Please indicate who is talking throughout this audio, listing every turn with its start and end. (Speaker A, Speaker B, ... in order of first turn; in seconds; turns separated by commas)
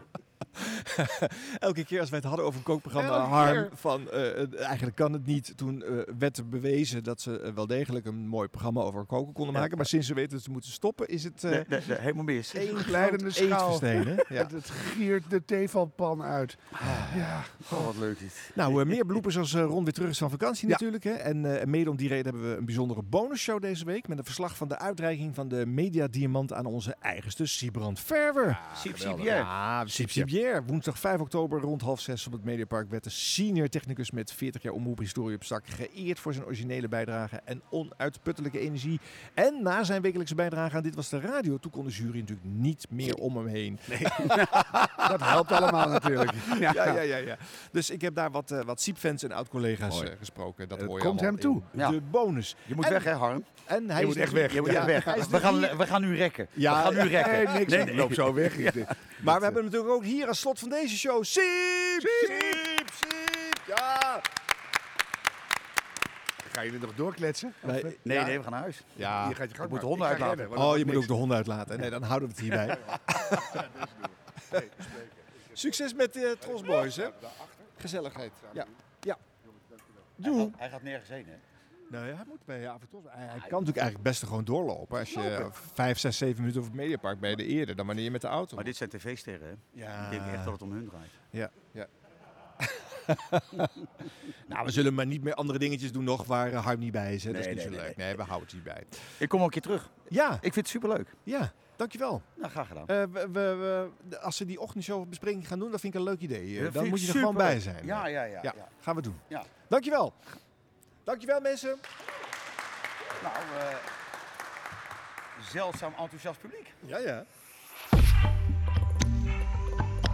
Speaker A: 0.6-11.9, Speaker B: 3.3-3.6, Speaker C: 9.5-9.9, Speaker C: 11.5-12.8, Speaker A: 12.5-14.5, Speaker B: 12.7-17.8, Speaker C: 16.8-18.8, Speaker A: 18.6-28.6, Speaker B: 28.5-30.3, Speaker C: 28.8-29.5, Speaker A: 29.2-53.1, Speaker B: 43.9-44.3, Speaker B: 45.0-47.0, Speaker B: 50.8-51.7, Speaker C: 52.7-53.5, Speaker A: 53.7-55.8, Speaker B: 54.0-55.2, Speaker C: 54.5-58.9, Speaker A: 56.5-57.8, Speaker B: 57.2-59.4, Speaker A: 59.2-64.2, Speaker B: 62.0-62.6, Speaker B: 66.4-67.9, Speaker A: 67.6-68.4, Speaker C: 68.0-69.0, Speaker A: 69.0-69.4, Speaker B: 69.1-71.1, Speaker C: 69.6-70.6, Speaker A: 70.5-73.6, Speaker B: 74.5-75.1, Speaker A: 75.5-77.2, Speaker A: 77.8-79.2, Speaker A: 80.2-80.5, Speaker C: 80.2-81.4, Speaker A: 81.9-88.7, Speaker C: 88.6-91.1, Speaker A: 89.8-90.6, Speaker A: 91.3-91.9, Speaker A: 92.6-93.7, Speaker A: 94.5-99.1, Speaker C: 97.3-98.0, Speaker C: 99.2-101.2, Speaker A: 100.1-100.5, Speaker A: 101.3-102.3, Speaker C: 102.4-102.9, Speaker A: 102.9-110.2, Speaker C: 106.6-108.7, Speaker A: 111.0-111.8, Speaker C: 113.2-113.9, Speaker C: 115.4-116.8, Speaker A: 116.8-117.3